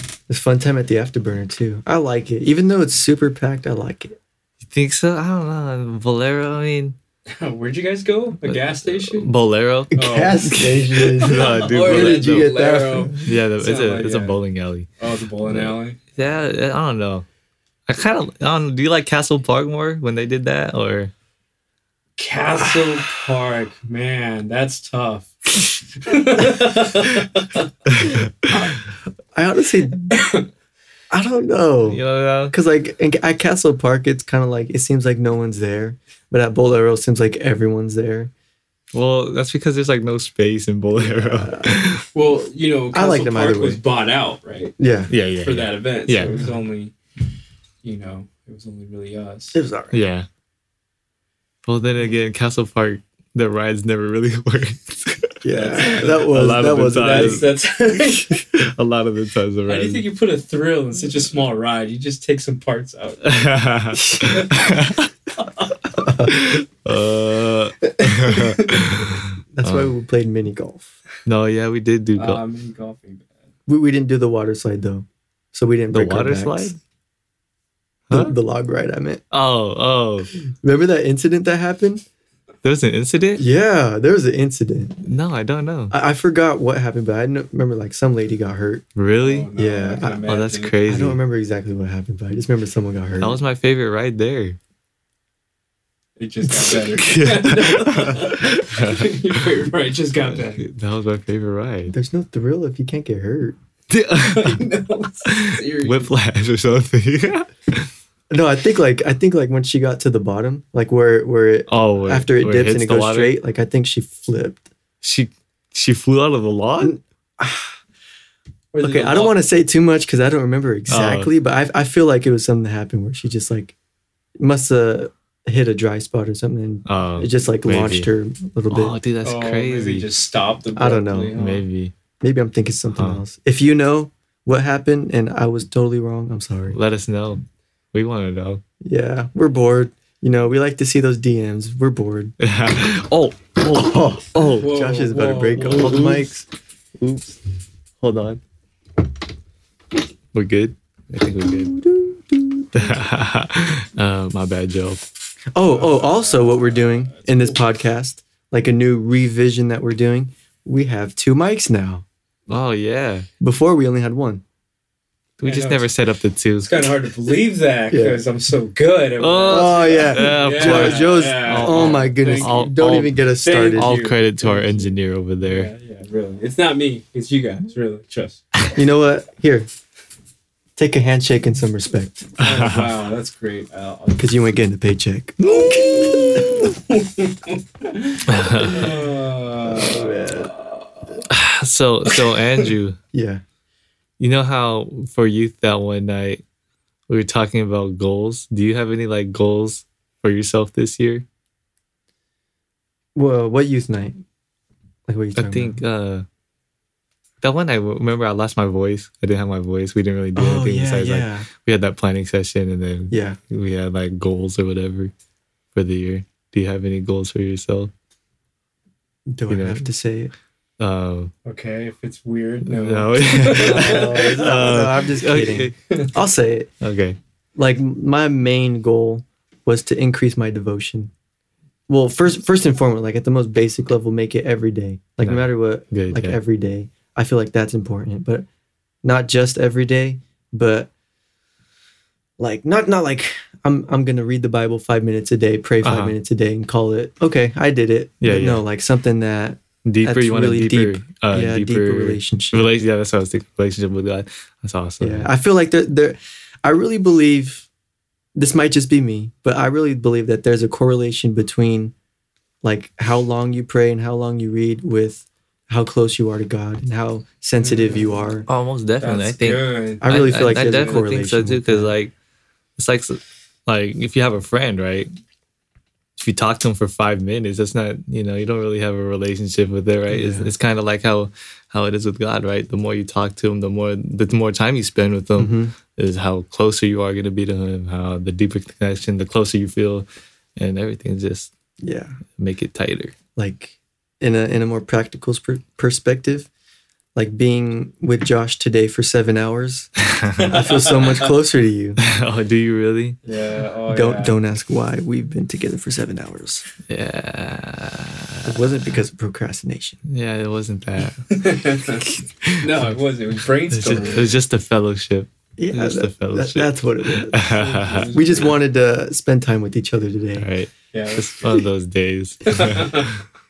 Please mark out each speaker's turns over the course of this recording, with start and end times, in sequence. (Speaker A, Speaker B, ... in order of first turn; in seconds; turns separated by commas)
Speaker A: 0.3-4.2, Speaker B: 4.7-7.0, Speaker C: 7.3-9.3, Speaker B: 8.4-12.5, Speaker A: 9.9-13.2, Speaker C: 9.9-10.5, Speaker C: 11.2-14.3, Speaker B: 13.2-14.9, Speaker C: 15.0-16.0, Speaker B: 15.5-17.2, Speaker B: 17.9-21.1, Speaker C: 22.2-27.7, Speaker B: 27.9-28.3, Speaker A: 28.5-28.8, Speaker A: 29.3-30.2, Speaker C: 30.1-30.5, Speaker A: 31.1-38.3, Speaker B: 31.9-32.5, Speaker B: 38.9-42.0, Speaker A: 40.9-41.8, Speaker C: 42.1-44.8, Speaker A: 42.9-43.8, Speaker A: 44.8-45.1, Speaker B: 45.1-46.5, Speaker C: 45.4-46.9, Speaker A: 46.2-46.5, Speaker C: 47.8-49.6, Speaker A: 49.5-50.0, Speaker B: 49.9-50.3, Speaker B: 51.6-57.5, Speaker A: 55.4-57.5, Speaker C: 55.5-56.3, Speaker C: 56.9-58.4, Speaker B: 58.5-60.0, Speaker C: 59.7-63.6, Speaker B: 63.2-65.1, Speaker A: 64.1-64.4, Speaker C: 64.2-64.7, Speaker A: 65.9-66.3, Speaker B: 66.2-69.9, Speaker A: 68.0-68.6, Speaker A: 69.5-70.9, Speaker B: 71.2-72.4, Speaker C: 72.2-73.3, Speaker A: 73.7-76.8, Speaker B: 75.9-76.8, Speaker B: 78.1-78.3, Speaker A: 78.1-79.2, Speaker B: 79.3-80.3, Speaker A: 80.5-82.0, Speaker B: 82.6-83.4, Speaker A: 83.4-85.0, Speaker B: 85.0-85.9, Speaker A: 85.9-88.8, Speaker B: 89.0-89.5, Speaker C: 89.2-90.7, Speaker A: 89.5-90.2, Speaker B: 90.3-91.2, Speaker A: 90.8-93.4, Speaker B: 93.2-94.6, Speaker C: 96.2-100.7, Speaker B: 96.6-99.5, Speaker B: 100.6-101.9, Speaker A: 101.9-103.6, Speaker B: 103.9-104.7, Speaker C: 104.2-106.1, Speaker B: 105.2-107.9, Speaker A: 108.3-114.7, Speaker B: 111.7-113.3, Speaker B: 115.0-117.0, Speaker A: 116.8-117.8, Speaker C: 118.7-119.4, Speaker A: 118.8-123.7, Speaker B: 120.9-121.3, Speaker A: 124.4-129.0, Speaker B: 126.9-128.1, Speaker B: 128.7-130.1, Speaker C: 129.2-131.6, Speaker A: 130.8-131.3, Speaker B: 131.3-131.9, Speaker A: 132.2-136.8, Speaker B: 132.9-133.2, Speaker B: 136.7-138.6, Speaker A: 138.8-142.3, Speaker B: 142.4-144.7, Speaker A: 143.8-146.4, Speaker C: 144.5-145.9, Speaker B: 145.6-146.3, Speaker B: 147.0-147.4, Speaker B: 148.0-148.4, Speaker B: 150.3-151.8, Speaker A: 151.5-152.9, Speaker B: 152.7-155.0, Speaker A: 155.5-162.0, Speaker C: 155.6-157.6, Speaker B: 162.5-163.3, Speaker A: 163.4-164.4, Speaker B: 165.4-166.8, Speaker C: 165.4-165.9, Speaker C: 166.6-172.7, Speaker A: 167.9-168.2, Speaker B: 169.2-173.2, Speaker A: 169.5-173.9, Speaker C: 173.4-178.4, Speaker B: 173.7-175.7, Speaker A: 178.7-179.7, Speaker A: 180.8-182.3, Speaker C: 182.4-184.4, Speaker B: 182.4-182.9, Speaker A: 184.2-186.7, Speaker B: 185.5-186.7, Speaker C: 185.6-191.2, Speaker B: 188.3-188.9, Speaker A: 189.6-190.5, Speaker B: 191.3-193.0, Speaker C: 192.1-192.6, Speaker A: 193.1-193.4, Speaker B: 194.2-196.4, Speaker B: 197.1-201.2, Speaker A: 203.1-204.2, Speaker A: 205.1-205.8, Speaker B: 205.3-206.2, Speaker B: 207.4-215.1, Speaker A: 210.3-211.5, Speaker A: 213.1-213.4, Speaker B: 215.7-217.9, Speaker A: 219.3-220.3, Speaker B: 219.5-219.9, Speaker B: 220.8-221.3, Speaker C: 221.4-224.6, Speaker B: 222.7-225.7, Speaker A: 223.5-226.7, Speaker B: 226.8-227.2, Speaker A: 227.6-231.1, Speaker A: 231.9-238.4, Speaker B: 235.2-236.4, Speaker A: 239.0-240.9, Speaker A: 242.4-252.7, Speaker B: 245.8-246.1, Speaker B: 248.2-248.6, Speaker B: 249.8-255.3, Speaker A: 255.0-257.7, Speaker A: 258.4-261.9, Speaker A: 262.6-268.5, Speaker C: 267.6-268.2, Speaker B: 268.5-272.1, Speaker C: 269.0-271.0, Speaker A: 270.0-271.9, Speaker B: 272.8-275.1, Speaker B: 276.2-290.1, Speaker A: 280.1-280.5, Speaker A: 285.4-285.7, Speaker B: 290.6-291.5, Speaker A: 291.8-292.2, Speaker B: 292.4-293.1, Speaker A: 293.4-296.5, Speaker A: 297.1-299.9, Speaker B: 300.0-300.5, Speaker C: 300.4-301.3, Speaker A: 300.4-302.0, Speaker B: 302.0-303.2, Speaker C: 303.2-304.4, Speaker A: 303.9-306.7, Speaker B: 306.9-308.7, Speaker A: 308.4-310.0, Speaker B: 310.1-311.4, Speaker C: 311.3-312.1, Speaker B: 312.0-312.9, Speaker C: 312.6-314.3, Speaker B: 313.7-318.1, Speaker A: 315.6-317.5, Speaker C: 317.4-318.6, Speaker A: 318.1-320.5, Speaker B: 320.4-323.1, Speaker C: 320.9-321.6, Speaker C: 322.5-323.1